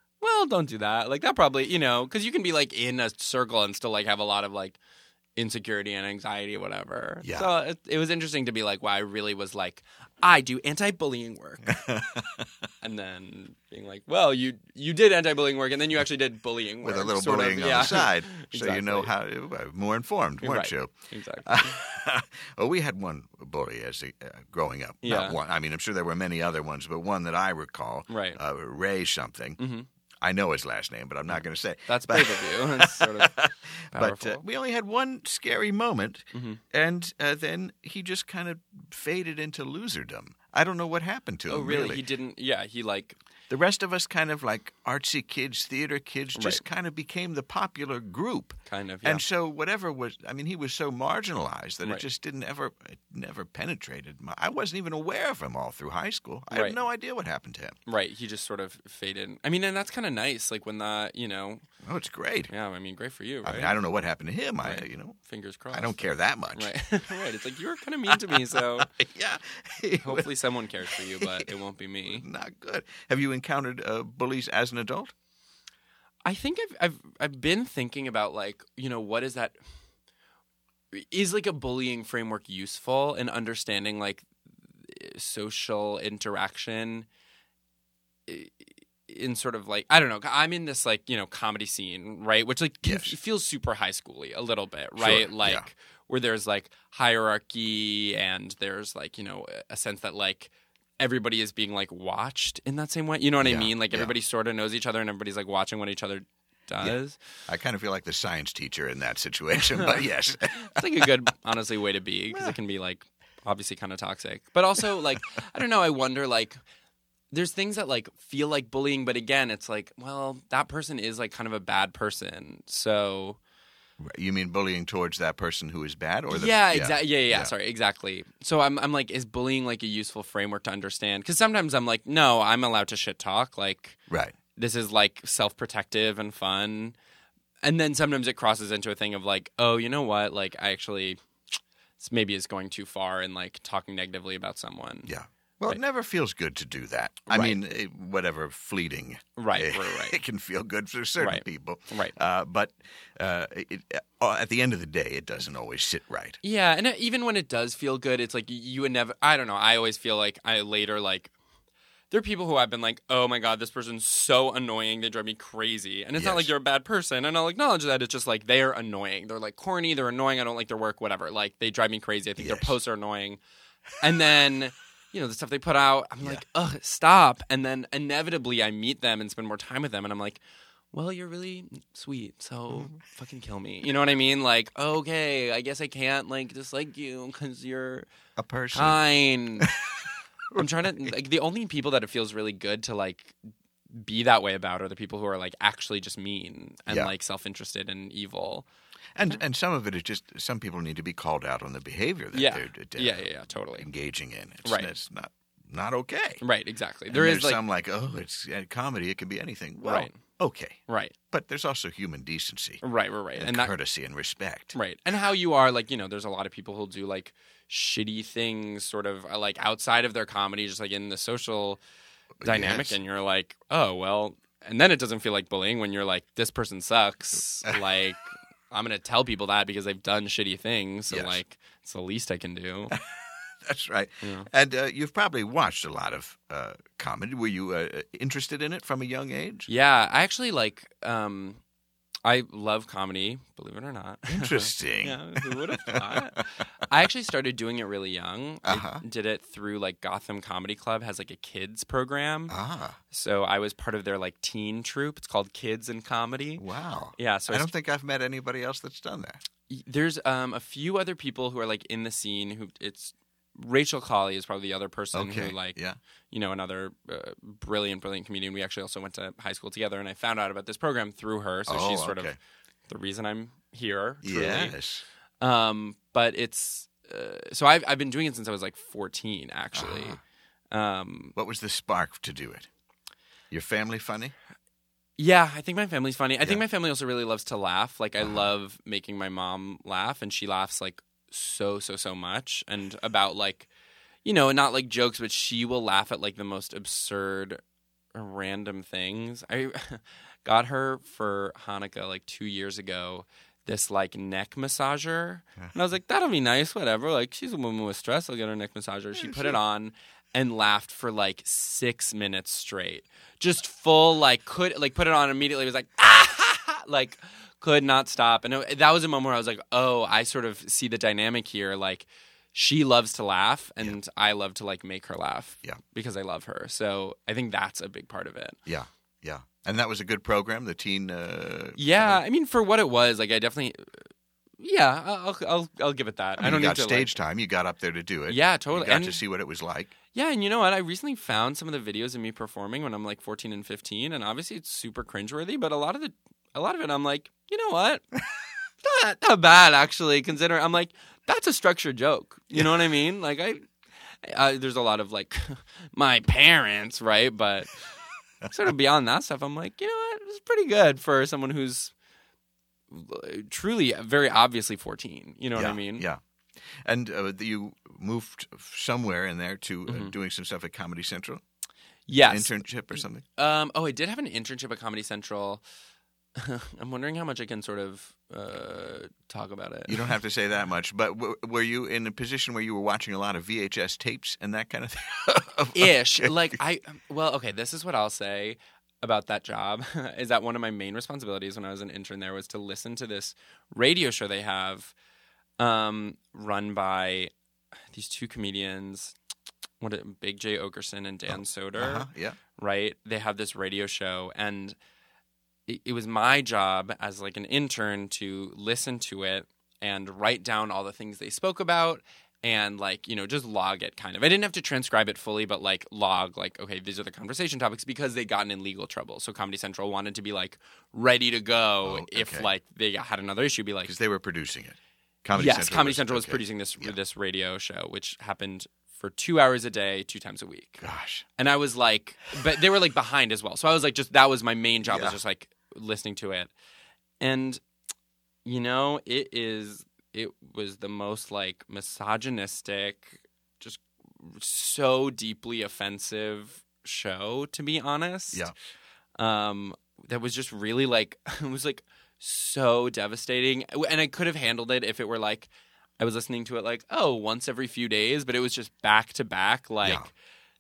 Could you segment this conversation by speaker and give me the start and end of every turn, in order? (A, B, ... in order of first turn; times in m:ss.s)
0:00.2-0:04.8 A
0:05.4-0:11.7 A
0:07.2-0:07.5 B
0:11.6-0:12.5 B
0:12.8-0:19.1 A
0:16.8-0:20.9 B
0:20.4-0:21.8 A
0:21.4-0:29.6 B
0:25.0-0:25.4 A
0:28.1-0:28.4 A
0:29.6-0:29.9 A
0:30.2-0:42.0 B
0:31.3-0:33.4 A
0:33.9-0:34.4 A
0:36.3-0:36.6 A
0:41.5-0:43.2 A
0:43.5-0:57.8 B
0:46.4-0:46.6 A
0:48.7-0:49.2 A
0:56.5-0:56.8 A
0:57.9-1:01.6 A
1:01.8-1:02.5 B
1:02.5-1:03.8 A
1:03.4-1:05.2 B
1:04.6-1:06.0 A
1:05.7-1:06.7 B
1:06.6-1:08.9 A
1:08.1-1:10.3 B
1:10.0-1:12.2 A
1:10.9-1:11.5 B
1:12.1-1:15.1 B
1:16.2-1:19.6 A
1:20.9-1:24.3 A
1:24.8-1:27.1 A
1:28.3-1:47.2 A
1:32.8-1:33.2 B
1:35.0-1:35.7 B
1:43.4-1:44.1 B
1:46.8-1:51.0 B
1:49.8-1:56.6 A
1:57.3-2:03.4 A
2:04.0-2:07.5 B
2:06.3-2:14.0 A
2:14.1-2:14.4 B
2:14.6-2:17.0 A
2:17.6-2:21.2 A
2:22.0-2:25.1 A
2:25.1-2:36.4 B
2:27.3-2:27.6 A
2:29.4-2:30.2 A
2:31.2-2:32.2 A
2:36.4-2:41.3 A
2:42.1-2:53.4 A
2:46.2-2:46.5 B
2:52.4-2:52.7 B
2:54.0-3:00.4 A
3:00.9-3:08.1 A
3:08.4-3:09.0 B
3:08.7-3:09.7 A
3:09.6-3:11.1 B
3:10.6-3:13.4 A
3:13.9-3:18.7 A
3:19.2-3:26.4 B
3:22.3-3:23.9 A
3:24.6-3:24.9 A
3:26.4-3:27.6 A
3:27.1-3:32.8 B
3:29.8-3:30.2 A
3:30.9-3:31.2 A
3:32.8-3:33.7 A
3:33.4-3:34.8 B
3:34.7-3:41.8 A
3:42.4-3:43.0 B
3:42.4-3:52.9 A
3:51.1-3:51.4 B
3:52.9-3:59.7 B
3:54.2-3:54.5 A
3:59.7-4:01.6 A
4:02.2-4:12.5 A
4:04.3-4:06.5 B
4:08.6-4:09.0 B
4:12.5-4:13.0 B
4:13.1-4:16.6 A
4:16.6-4:19.4 B
4:17.2-4:17.7 A
4:19.7-4:25.8 A
4:25.1-4:26.0 B
4:26.3-4:32.3 A
4:31.7-4:32.4 B
4:32.9-4:34.8 A
4:34.2-4:35.0 B
4:35.4-4:40.2 A
4:39.8-4:40.2 B
4:40.7-4:41.3 A
4:41.4-4:42.7 B
4:43.5-4:44.3 B
4:45.2-4:53.7 A
4:54.2-4:57.6 A
4:58.1-5:28.6 A
5:09.2-5:09.6 B
5:28.7-5:32.2 B
5:31.8-5:34.1 A
5:34.6-5:37.1 A
5:36.4-5:39.9 B
5:38.3-5:39.2 A
5:40.1-5:48.1 A
5:48.8-5:57.9 A
5:58.5-6:01.9 A
6:02.9-6:06.0 A
6:05.6-6:06.2 B
6:06.8-6:11.4 B
6:09.9-6:10.1 A
6:12.1-6:12.6 A
6:12.3-6:13.2 B
6:13.4-6:15.6 A
6:16.4-6:20.1 A
6:19.9-6:26.6 B
6:25.7-6:34.9 A
6:35.6-6:37.3 A
6:37.9-6:39.2 A
6:39.8-6:44.8 A
6:41.3-6:42.4 B
6:45.7-7:03.9 A
7:01.8-7:02.5 B
7:03.8-7:07.0 B
7:05.4-7:10.8 A
7:10.8-7:11.2 B
7:11.4-7:16.5 A
7:14.9-7:15.2 B
7:17.2-7:17.6 A
7:18.4-7:28.4 A
7:29.2-7:40.1 A
7:39.8-7:40.1 B